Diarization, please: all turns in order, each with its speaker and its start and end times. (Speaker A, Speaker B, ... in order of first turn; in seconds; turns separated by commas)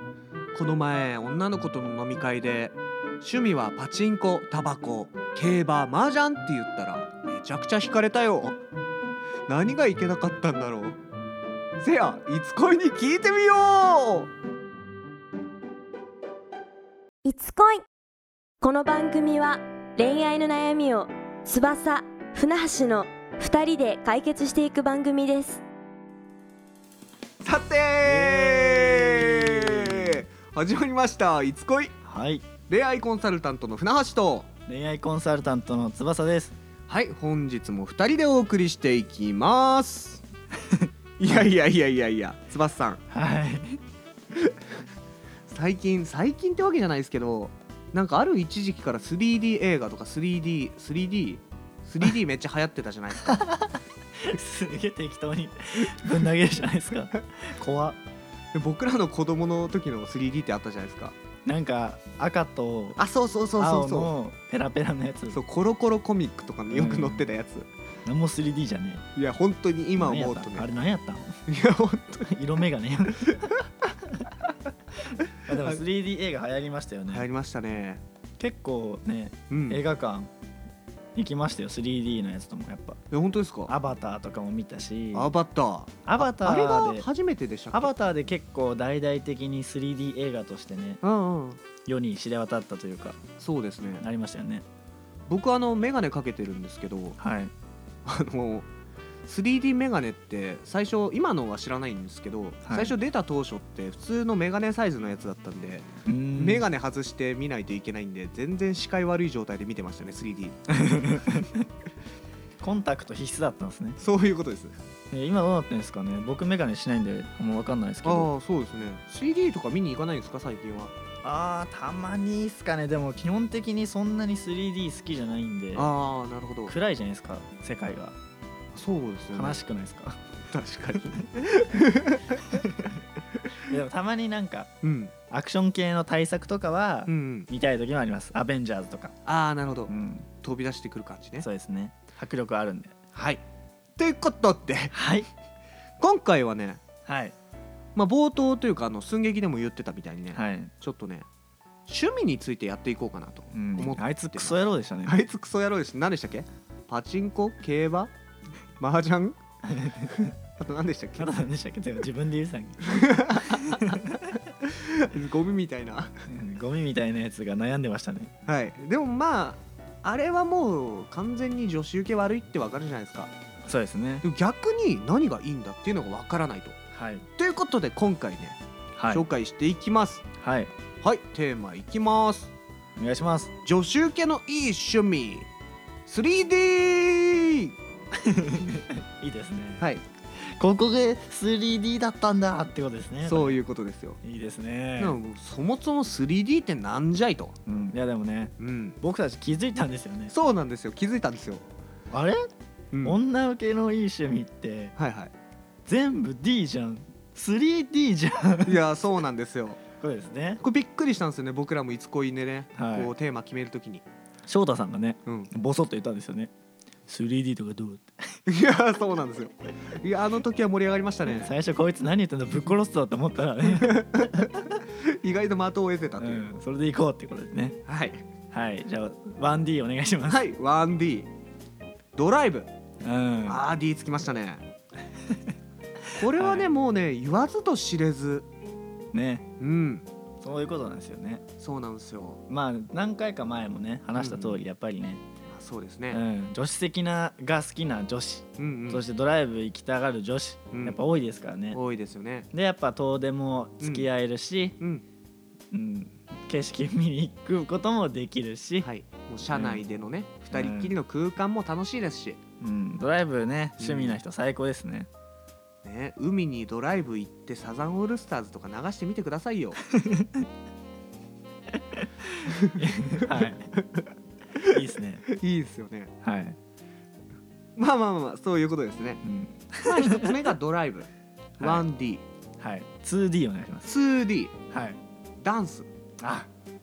Speaker A: 0.5-8.6, Speaker A: 9.5-11.0, Speaker A: 11.8-14.3, Speaker B: 17.2-17.9, Speaker B: 18.6-25.6, Speaker A: 27.4-31.9, Speaker C: 28.0-30.2, Speaker C: 32.0-32.5, Speaker A: 32.7-34.5, Speaker C: 34.7-36.5, Speaker A: 36.9-40.2, Speaker A: 41.2-43.0, Speaker C: 43.1-43.8, Speaker A: 45.5-53.4, Speaker C: 53.3-53.8, Speaker C: 54.3-58.0, Speaker A: 58.5-61.2, Speaker C: 61.5-63.0, Speaker A: 63.0-64.1, Speaker C: 63.6-65.4, Speaker A: 65.3-67.7, Speaker C: 66.7-67.3, Speaker C: 68.1-69.1, Speaker A: 69.2-70.7, Speaker C: 70.0-71.4, Speaker A: 71.5-72.3, Speaker C: 72.2-73.5, Speaker C: 75.5-77.3, Speaker A: 77.1-78.0, Speaker C: 78.4-80.3, Speaker A: 79.5-79.8, Speaker C: 81.2-83.0, Speaker A: 83.1-83.7, Speaker C: 83.7-85.3, Speaker A: 85.1-87.9, Speaker C: 86.1-87.1, Speaker C: 87.7-91.0, Speaker A: 91.0-91.6, Speaker C: 91.9-93.2, Speaker A: 93.4-94.0, Speaker C: 94.0-94.7, Speaker A: 95.3-97.2, Speaker C: 97.2-97.5, Speaker A: 98.0-98.7, Speaker A: 99.2-110.6, Speaker C: 102.7-102.9, Speaker C: 106.1-106.7, Speaker C: 110.7-111.7, Speaker C: 112.6-114.0, Speaker A: 114.0-114.8, Speaker C: 115.1-118.3, Speaker A: 118.0-120.9, Speaker C: 121.2-125.9, Speaker A: 125.8-126.8, Speaker C: 126.7-128.2, Speaker A: 128.7-129.6, Speaker C: 129.3-130.2, Speaker A: 130.5-132.5, Speaker C: 132.5-132.9, Speaker C: 133.6-134.7, Speaker A: 134.8-135.1, Speaker C: 135.3-139.2, Speaker A: 137.1-137.5, Speaker A: 139.2-141.5, Speaker C: 139.9-140.3, Speaker C: 141.4-142.9, Speaker A: 143.1-143.4, Speaker A: 144.0-144.9, Speaker C: 144.9-145.3, Speaker A: 146.0-146.8, Speaker C: 147.1-147.3, Speaker A: 147.9-151.3, Speaker C: 150.3-150.7, Speaker A: 151.9-158.1, Speaker C: 153.5-155.2, Speaker A: 158.8-159.4, Speaker C: 159.7-160.3, Speaker A: 160.1-161.4, Speaker C: 161.2-164.1, Speaker A: 162.8-163.8, Speaker A: 164.5-166.1, Speaker C: 166.3-168.3, Speaker A: 168.5-173.3, Speaker C: 173.7-174.2, Speaker A: 174.2-176.8, Speaker C: 176.9-177.3, Speaker A: 177.4-180.2, Speaker C: 179.0-179.2, Speaker C: 180.4-180.7, Speaker A: 181.0-182.5, Speaker C: 183.0-183.5, Speaker A: 183.6-185.5, Speaker A: 186.1-187.7, Speaker C: 188.3-193.6, Speaker A: 189.8-190.0, Speaker A: 193.2-194.2, Speaker C: 194.2-195.2, Speaker A: 195.0-197.6, Speaker C: 197.7-200.3, Speaker A: 198.6-199.0, Speaker A: 200.3-201.7, Speaker C: 202.1-202.4, Speaker A: 202.9-203.2, Speaker C: 203.0-204.9, Speaker A: 205.0-205.3, Speaker C: 205.9-208.8, Speaker A: 208.7-209.8, Speaker C: 210.0-210.6, Speaker A: 210.6-214.1, Speaker C: 212.8-213.1, Speaker C: 214.5-216.5, Speaker A: 215.3-215.5, Speaker C: 217.1-218.2, Speaker A: 218.5-221.5, Speaker C: 221.3-224.5, Speaker A: 223.8-226.4, Speaker C: 226.2-227.8, Speaker A: 227.9-228.2, Speaker C: 228.5-230.4, Speaker A: 230.3-231.3, Speaker A: 232.2-232.7, Speaker C: 233.0-233.7, Speaker A: 233.4-234.7, Speaker A: 236.2-238.5, Speaker C: 236.3-236.7, Speaker C: 239.1-239.5, Speaker A: 239.6-240.1, Speaker C: 240.4-241.4, Speaker A: 241.6-242.4, Speaker C: 242.5-245.2, Speaker A: 244.2-244.6, Speaker A: 245.5-246.2, Speaker C: 246.1-251.8, Speaker A: 248.6-249.0, Speaker A: 250.7-251.0, Speaker A: 251.7-252.5, Speaker C: 252.5-254.8, Speaker A: 253.8-254.1, Speaker A: 254.8-255.1, Speaker C: 255.7-258.9, Speaker A: 258.8-262.4, Speaker C: 259.5-259.8, Speaker C: 260.5-260.9, Speaker C: 262.6-265.1, Speaker A: 263.8-264.2, Speaker A: 265.8-269.8, Speaker C: 269.9-270.5, Speaker C: 271.9-273.7, Speaker A: 272.5-276.1, Speaker C: 274.7-275.2, Speaker C: 276.2-276.6, Speaker A: 277.8-279.2, Speaker C: 279.2-280.5, Speaker A: 279.8-282.2, Speaker C: 281.6-281.9, Speaker C: 282.6-283.9, Speaker A: 283.9-284.5, Speaker C: 284.7-285.0, Speaker A: 285.4-285.9, Speaker C: 286.2-286.5